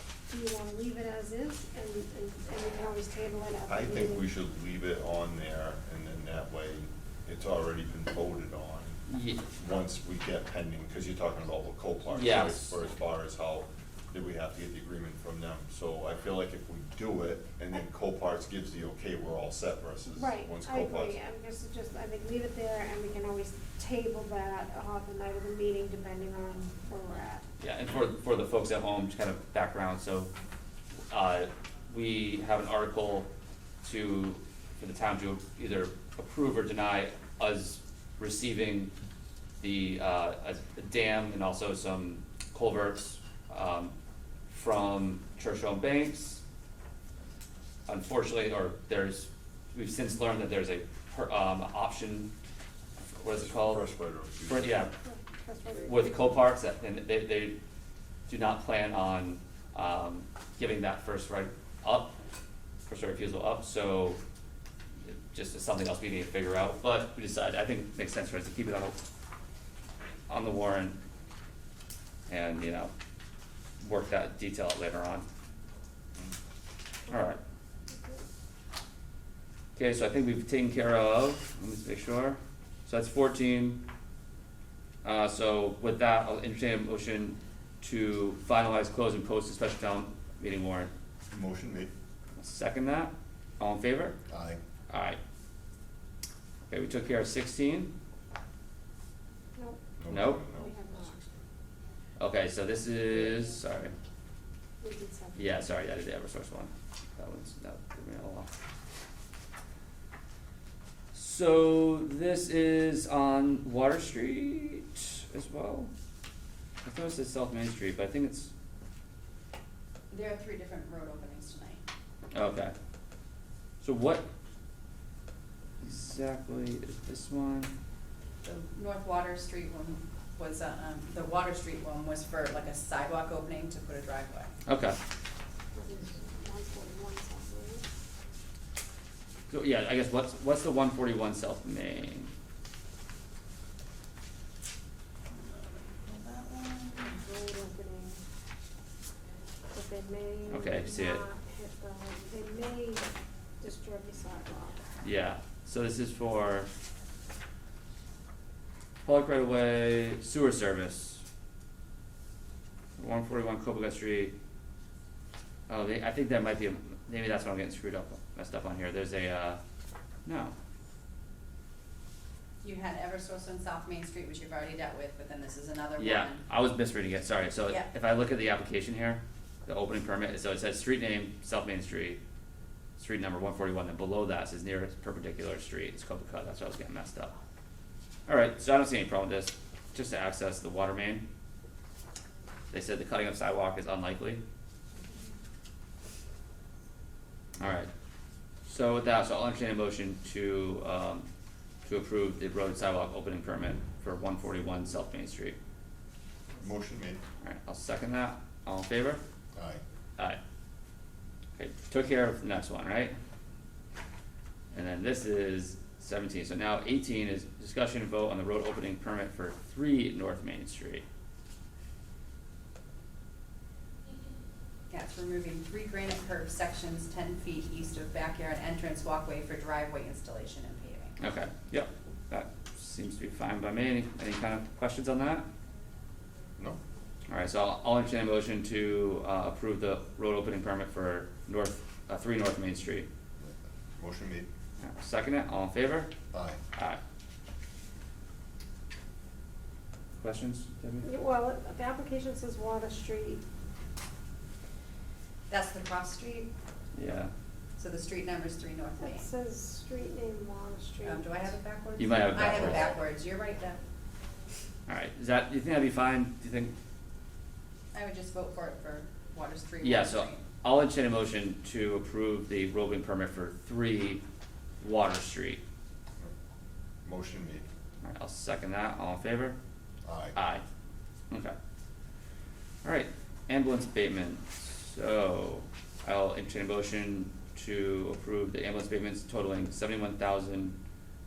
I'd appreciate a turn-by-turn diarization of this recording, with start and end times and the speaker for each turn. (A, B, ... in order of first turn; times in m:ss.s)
0:00.3-0:04.2 A
0:03.7-0:09.0 B
0:09.1-0:09.4 C
0:09.5-0:21.2 B
0:12.1-0:12.8 C
0:20.1-0:27.4 A
0:27.6-0:30.3 C
0:31.1-0:33.3 C
0:33.8-0:38.9 C
0:39.6-0:43.9 C
0:44.5-0:46.4 C
0:47.9-0:52.3 C
0:53.0-0:53.9 C
0:53.3-0:54.8 B
0:54.5-0:54.9 C
0:55.0-0:56.4 A
0:55.9-0:57.6 C
0:58.3-1:02.1 C
1:02.9-1:04.2 C
1:05.0-1:09.0 C
1:10.3-1:11.0 C
1:12.3-1:12.9 C
1:13.8-1:15.2 C
1:17.1-1:17.4 C
1:17.9-1:18.2 A
1:19.7-1:23.8 C
1:25.0-1:30.9 C
1:31.3-1:31.9 B
1:32.4-1:34.2 C
1:34.3-1:34.6 B
1:34.9-1:35.2 C
1:36.7-1:37.9 C
1:39.6-1:39.8 A
1:40.0-1:41.4 B
1:40.1-1:40.4 C
1:40.5-1:41.2 A
1:42.2-1:43.9 C
1:44.8-1:45.6 A
1:45.4-1:48.5 C
1:51.1-1:55.9 C
1:56.8-1:58.5 C
2:00.1-2:01.8 D
2:02.3-2:02.7 C
2:03.8-2:04.2 C
2:05.8-2:07.7 C
2:08.4-2:14.5 D
2:14.7-2:15.0 C
2:15.7-2:17.9 A
2:19.5-2:22.3 C
2:25.3-2:27.1 D
2:27.0-2:28.2 A
2:29.7-2:33.1 A
2:30.5-2:31.2 C
2:33.6-2:34.8 A
2:35.0-2:36.7 C
2:39.0-2:41.2 C
2:43.0-2:44.3 C
2:45.7-2:49.6 C
2:50.2-2:50.5 C
2:52.6-2:56.4 D
2:56.0-3:02.2 C
3:03.0-3:07.3 C
3:08.3-3:11.2 C
3:12.7-3:14.4 C
3:17.6-3:17.9 C
3:18.6-3:21.3 C
3:21.8-3:25.6 C
3:26.6-3:27.2 B
3:27.4-3:29.2 C
3:29.5-3:29.8 B
3:31.6-3:33.1 C
3:34.7-3:41.0 C
3:44.9-3:51.2 D
3:51.2-3:55.4 C
3:57.3-4:03.1 C
4:03.4-4:04.5 B
4:04.8-4:06.1 C
4:06.3-4:06.6 B
4:10.2-4:11.1 C
4:11.0-4:13.4 A
4:15.5-4:16.5 D
4:17.0-4:17.3 C
4:17.8-4:19.3 D
4:19.0-4:21.4 A
4:21.0-4:23.8 D
4:22.0-4:22.9 C
4:24.9-4:26.7 C
4:27.9-4:30.5 D
4:29.8-4:34.2 C
4:34.8-4:35.6 C
4:37.0-4:37.6 B
4:38.0-4:39.6 C
4:40.0-4:40.4 B
4:40.3-4:40.6 C
4:42.8-4:50.7 C